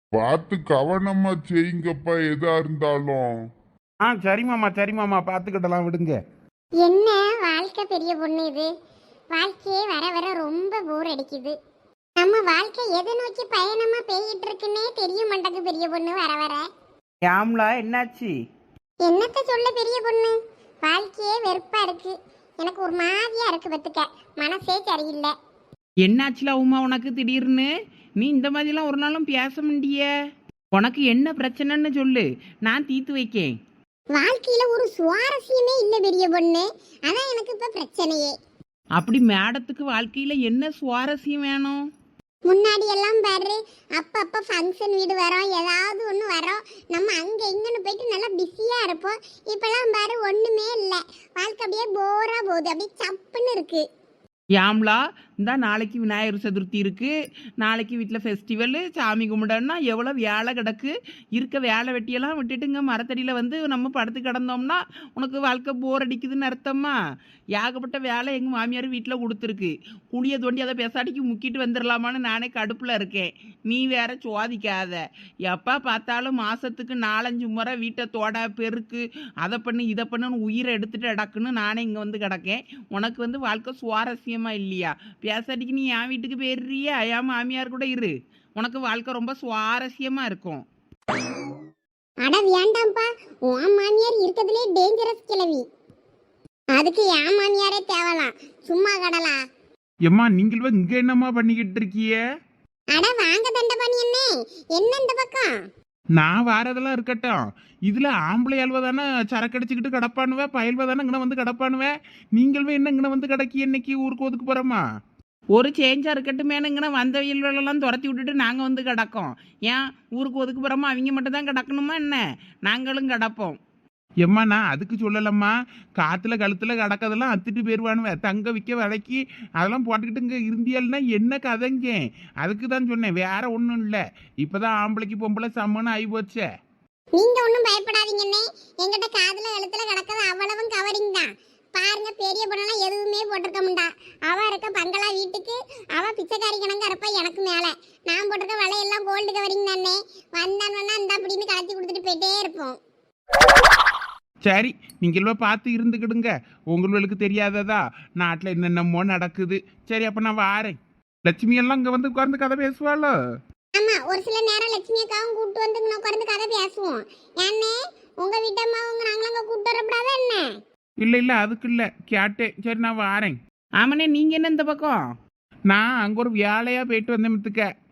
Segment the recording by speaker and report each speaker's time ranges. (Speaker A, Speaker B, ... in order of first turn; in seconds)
Speaker A: 0.1-3.4
Speaker B: 4.0-6.2, 100.1-102.2, 106.2-114.8, 124.2-136.4, 154.4-163.1, 171.0-173.4, 175.7-177.7
Speaker C: 6.8-8.7, 9.3-11.6, 12.2-16.7, 19.0-25.3, 34.1-38.4, 42.5-53.9, 92.2-95.7, 96.7-99.4, 102.9-105.5, 137.1-152.8, 163.8-170.5
Speaker D: 17.3-18.3, 26.0-30.1, 30.7-33.5, 39.0-41.8, 54.5-67.0, 67.5-90.7, 115.5-123.6, 173.8-175.1